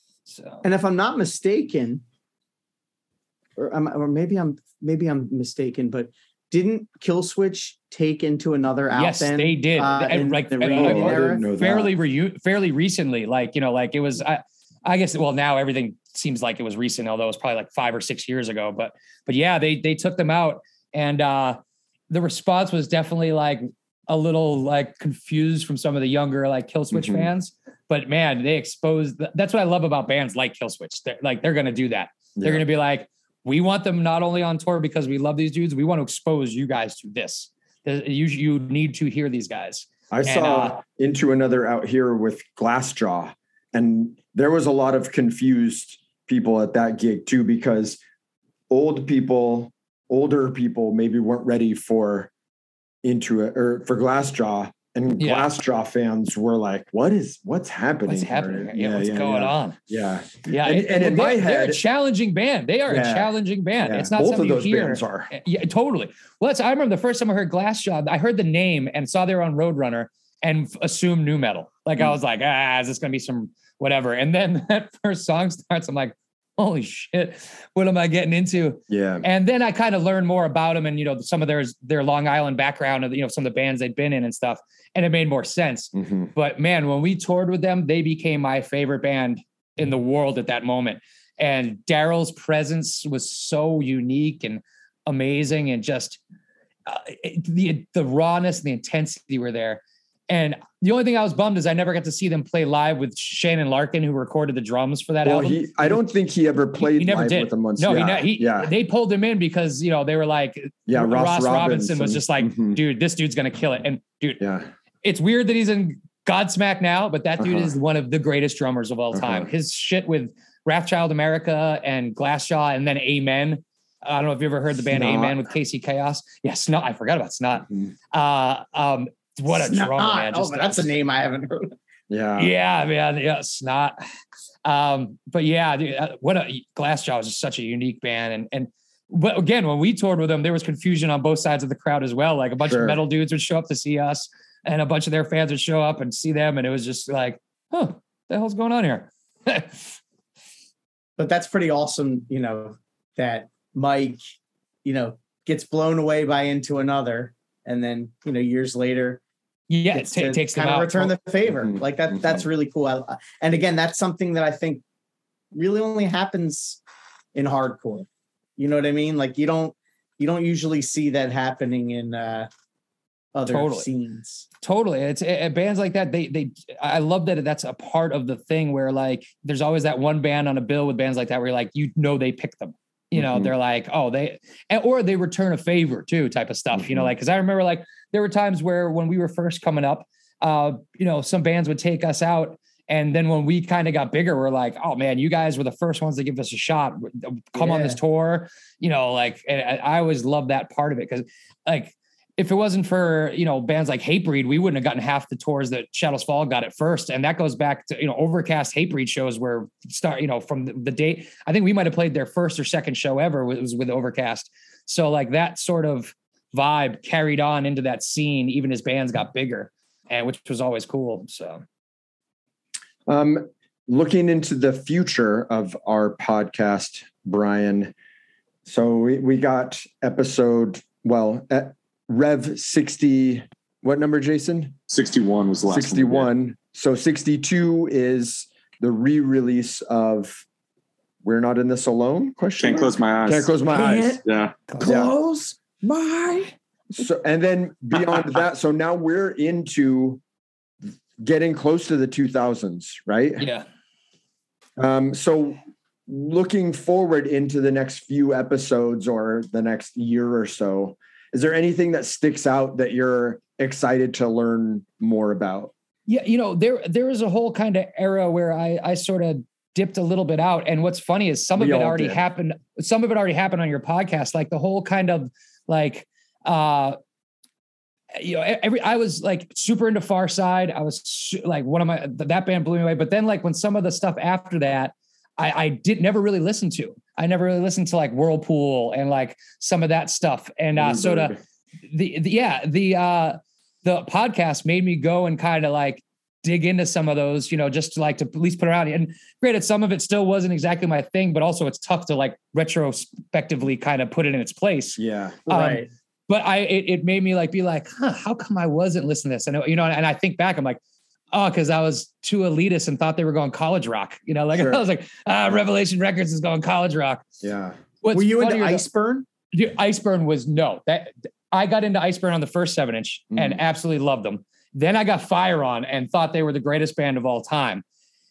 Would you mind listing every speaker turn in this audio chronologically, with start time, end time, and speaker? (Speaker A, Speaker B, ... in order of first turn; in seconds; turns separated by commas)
Speaker A: 0.3-0.6, Speaker B: 0.6-2.0, Speaker B: 3.6-11.5, Speaker A: 8.9-21.6, Speaker C: 10.7-11.9, Speaker A: 22.1-40.8, Speaker C: 26.9-27.3, Speaker C: 32.4-32.6, Speaker C: 40.1-48.0, Speaker C: 48.7-52.3, Speaker C: 53.0-61.8, Speaker A: 55.2-55.5, Speaker A: 58.1-59.8, Speaker A: 60.5-96.2, Speaker C: 62.9-65.3, Speaker C: 78.9-79.3, Speaker C: 85.9-86.3, Speaker A: 96.9-106.1, Speaker C: 105.2-108.7, Speaker A: 106.8-114.4, Speaker C: 110.9-112.8, Speaker C: 114.4-114.7, Speaker A: 115.0-130.9, Speaker C: 117.4-117.7, Speaker C: 119.1-119.5, Speaker C: 124.9-125.4, Speaker B: 129.5-131.8, Speaker C: 132.1-132.5, Speaker A: 132.4-134.0, Speaker A: 134.6-149.9, Speaker C: 142.6-143.0, Speaker B: 151.2-154.2, Speaker B: 154.8-159.2, Speaker A: 159.7-161.1, Speaker B: 159.9-164.8, Speaker B: 165.5-166.8, Speaker B: 167.3-172.5, Speaker B: 173.3-174.5, Speaker A: 173.5-173.9, Speaker A: 174.6-221.6, Speaker C: 183.1-183.5, Speaker C: 186.8-187.1, Speaker B: 197.6-198.0, Speaker C: 223.1-227.9, Speaker C: 228.7-234.8, Speaker D: 234.9-236.3, Speaker C: 235.7-240.4, Speaker C: 241.2-244.2, Speaker D: 242.6-243.6, Speaker A: 243.7-245.1, Speaker D: 244.2-244.6, Speaker C: 244.8-245.1, Speaker B: 244.9-245.5, Speaker C: 245.8-250.2, Speaker C: 251.2-253.5, Speaker A: 253.4-253.7, Speaker C: 254.8-265.7, Speaker A: 266.1-277.0, Speaker C: 271.6-272.2, Speaker A: 278.1-291.3, Speaker C: 290.8-291.4, Speaker A: 291.9-310.8, Speaker C: 305.0-305.4, Speaker B: 305.5-305.9, Speaker A: 311.3-317.3, Speaker C: 314.6-314.8, Speaker C: 317.4-317.8, Speaker A: 318.0-318.8, Speaker B: 318.1-319.3, Speaker A: 319.5-327.8, Speaker C: 323.3-323.6